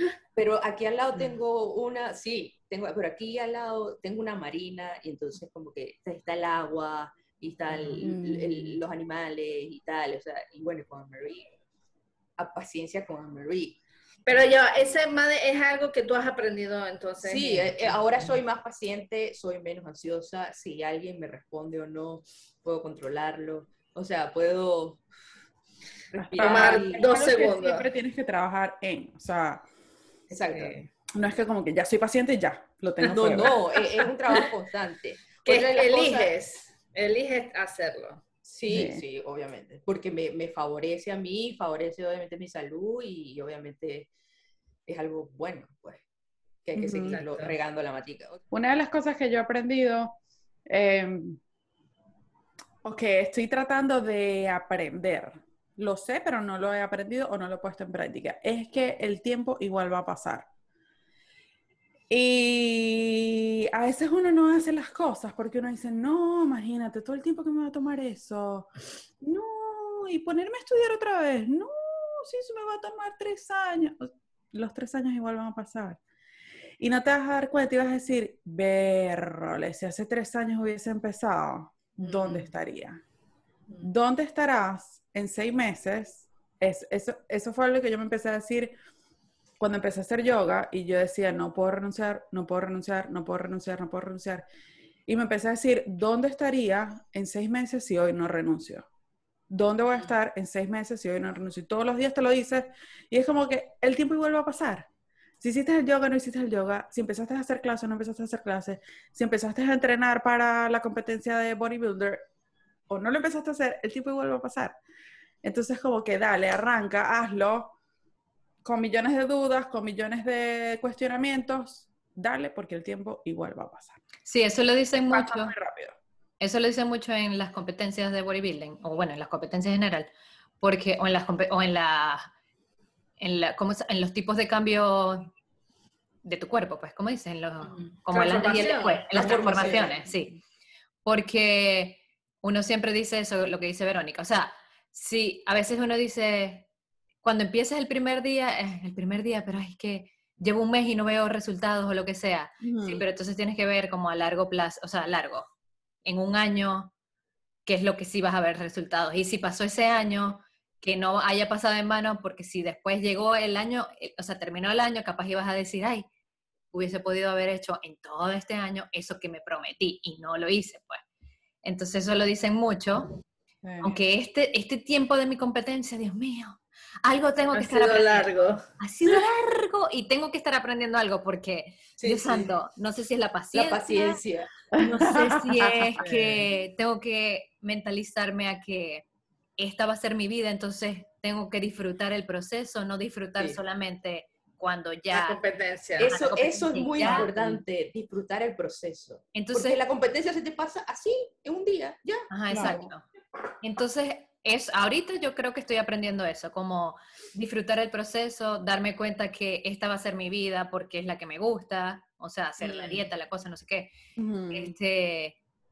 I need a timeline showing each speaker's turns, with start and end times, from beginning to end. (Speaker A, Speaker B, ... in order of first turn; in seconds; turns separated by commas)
Speaker A: 0.4-11.5, Speaker B: 7.7-8.1, Speaker C: 8.0-8.8, Speaker A: 12.4-13.8, Speaker B: 14.3-17.9, Speaker A: 17.2-25.0, Speaker A: 26.1-27.1, Speaker C: 26.1-29.7, Speaker B: 26.4-27.9, Speaker A: 30.3-30.8, Speaker B: 30.3-30.9, Speaker C: 31.1-33.5, Speaker B: 33.0-34.4, Speaker A: 33.1-36.3, Speaker B: 35.4-38.2, Speaker A: 38.4-44.1, Speaker C: 38.7-39.0, Speaker A: 44.9-46.0, Speaker A: 46.6-48.4, Speaker C: 46.8-47.2, Speaker B: 47.0-47.5, Speaker C: 48.5-51.4, Speaker C: 52.8-60.5, Speaker C: 62.1-68.7, Speaker C: 69.2-76.0, Speaker C: 76.8-83.0, Speaker B: 82.0-82.5, Speaker C: 83.8-88.8, Speaker C: 89.6-94.5, Speaker C: 95.1-98.9, Speaker C: 99.5-104.9, Speaker C: 105.4-112.3, Speaker C: 112.9-114.8, Speaker C: 115.4-117.8, Speaker C: 118.6-124.0, Speaker D: 124.2-125.5, Speaker C: 125.1-126.0, Speaker D: 126.4-130.1, Speaker D: 130.6-132.3, Speaker D: 133.2-135.3, Speaker D: 136.2-140.3, Speaker B: 137.6-139.8, Speaker A: 138.6-140.0, Speaker D: 141.1-146.7, Speaker D: 147.2-155.5, Speaker C: 152.6-153.0, Speaker D: 156.0-156.9, Speaker D: 157.7-166.1, Speaker D: 166.7-171.0, Speaker D: 171.6-173.1, Speaker C: 173.6-173.9, Speaker D: 173.8-178.3, Speaker B: 177.5-178.6, Speaker D: 178.8-184.2, Speaker A: 182.0-182.5, Speaker A: 183.5-184.5, Speaker C: 184.8-186.4, Speaker D: 184.8-189.1, Speaker D: 189.6-195.4, Speaker B: 195.1-196.3, Speaker A: 196.0-202.3, Speaker D: 196.0-197.6, Speaker B: 197.0-197.3, Speaker D: 199.3-199.8, Speaker D: 202.3-203.0, Speaker C: 202.5-202.9, Speaker D: 203.6-213.9, Speaker B: 212.6-213.1, Speaker C: 214.2-214.8, Speaker D: 214.5-215.4